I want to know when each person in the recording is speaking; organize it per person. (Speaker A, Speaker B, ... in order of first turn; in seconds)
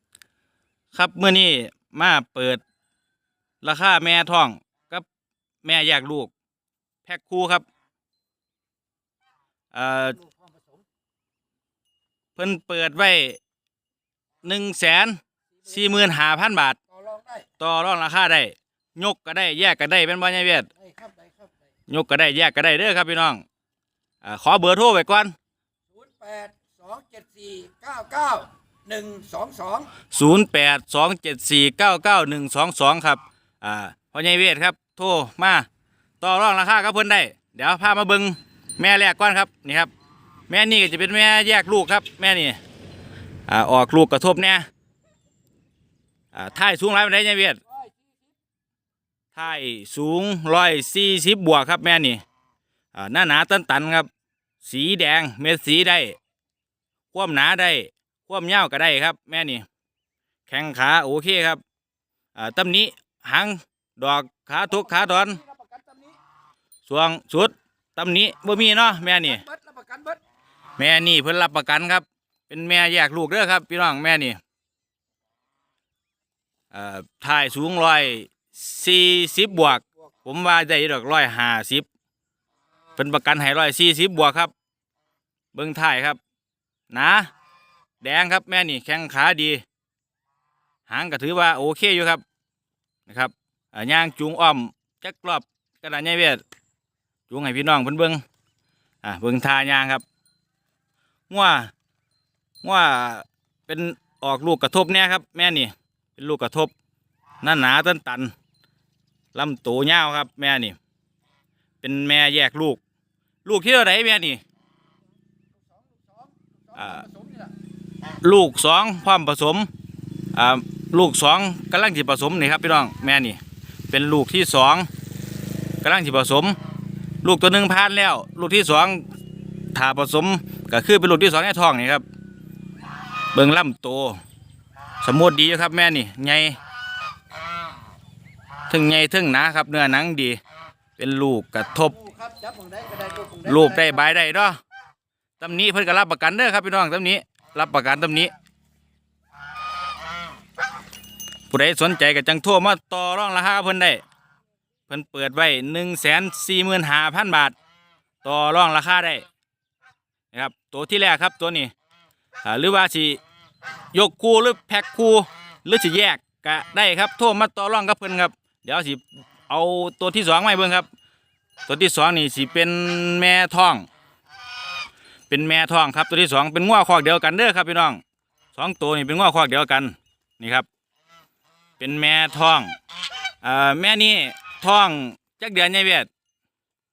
Speaker A: 0.9-2.6, 3.6-5.1, 5.6-6.3, 7.1-7.7, 9.7-10.2, 12.4-13.4, 14.4-16.8, 17.6-20.7, 21.9-23.4, 24.2-25.3, 30.1-35.7, 36.2-39.9, 40.5-42.6, 43.5-44.7, 46.3-47.6, 49.3-52.2, 52.9-54.1, 54.6-56.2, 57.1-59.6, 60.5-61.6, 62.4-65.4, 66.9-69.5, 70.8-74.4, 76.7-81.9, 83.0-84.5, 85.5-86.2, 86.9-87.3, 88.0-89.6, 90.9-92.2, 93.1-96.4, 97.3-98.2, 99.0-100.0, 101.3-101.7, 102.6-106.7, 107.4-108.3, 109.3-110.8, 111.8-112.8, 113.5-114.4, 116.8-117.1, 118.2-119.7, 120.3-123.4, 123.9-124.9, 125.8-126.6, 127.2-129.0, 129.7-132.0, 133.3-134.2, 135.0-136.6, 138.7-140.4, 141.0-142.0, 143.4-144.6, 145.4-148.3, 151.5-154.0, 154.9-157.6, 158.2-159.2, 160.3-161.7, 162.4-163.2, 163.9-170.9, 171.7-173.9, 175.3-178.0, 178.6-180.7, 181.8-182.8, 183.4-186.1
Speaker B: 10.2-10.8, 16.9-17.5, 20.8-21.5, 25.9-29.9, 64.9-66.2, 69.4-70.2, 115.7-117.5, 142.0-143.9